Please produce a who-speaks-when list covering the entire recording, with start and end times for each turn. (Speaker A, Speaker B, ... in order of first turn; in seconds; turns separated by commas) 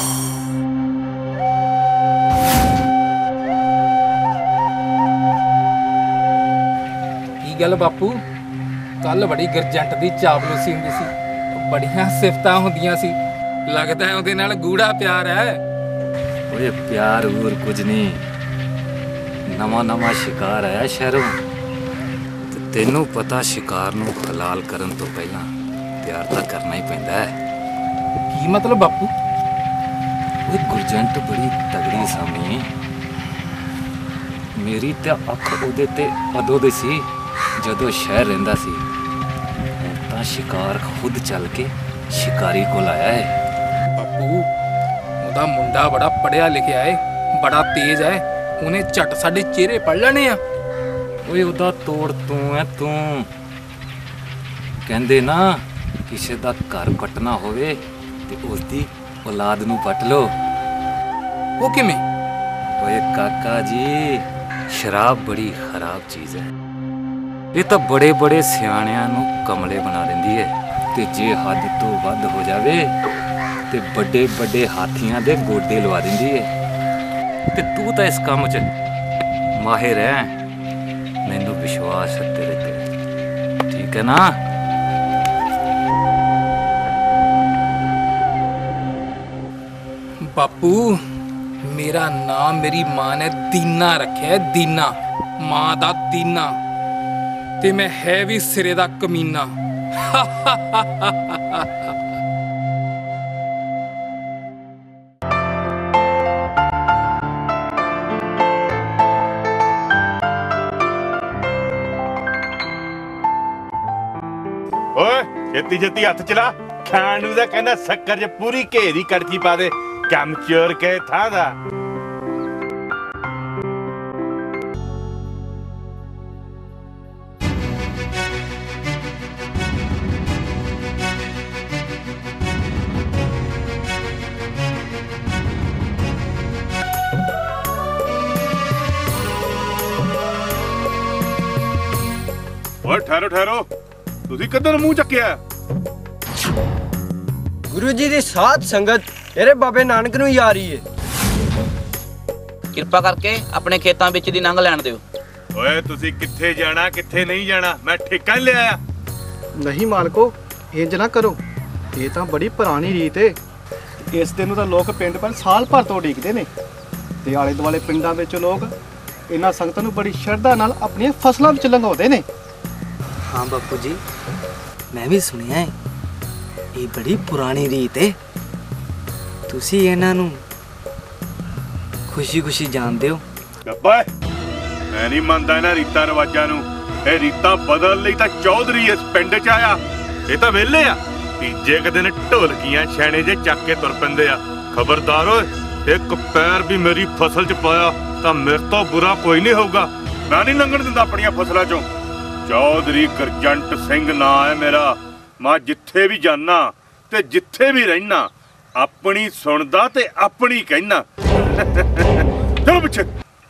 Speaker A: 7.4-8.2, Speaker A: 9.0-13.2, Speaker A: 13.7-15.6, Speaker B: 16.5-18.2, Speaker B: 19.5-21.4, Speaker B: 22.5-25.5, Speaker B: 26.0-27.4, Speaker A: 28.3-29.1, Speaker B: 30.4-32.7, Speaker B: 34.6-38.8, Speaker B: 39.8-43.4, Speaker A: 44.0-44.4, Speaker A: 45.2-50.4, Speaker B: 51.2-53.3, Speaker B: 54.8-60.3, Speaker A: 61.6-62.0, Speaker B: 62.8-66.5, Speaker B: 67.5-72.9, Speaker B: 73.7-76.5, Speaker B: 77.5-78.7, Speaker B: 79.5-80.3, Speaker B: 81.2-82.9, Speaker B: 83.7-84.4, Speaker A: 90.3-91.0, Speaker A: 91.6-96.5, Speaker A: 97.6-99.5, Speaker A: 100.1-101.6, Speaker C: 115.0-121.5, Speaker C: 142.8-143.7, Speaker C: 144.3-145.4, Speaker D: 147.7-150.8, Speaker E: 152.8-155.0, Speaker C: 155.6-158.8, Speaker F: 159.6-161.4, Speaker F: 161.9-163.4, Speaker F: 164.1-166.5, Speaker F: 167.2-168.7, Speaker F: 169.3-172.2, Speaker G: 173.3-174.0, Speaker G: 174.9-175.7, Speaker G: 176.8-178.1, Speaker G: 179.5-180.4, Speaker G: 182.1-183.2, Speaker C: 183.6-184.1, Speaker C: 184.9-201.9, Speaker C: 202.4-213.1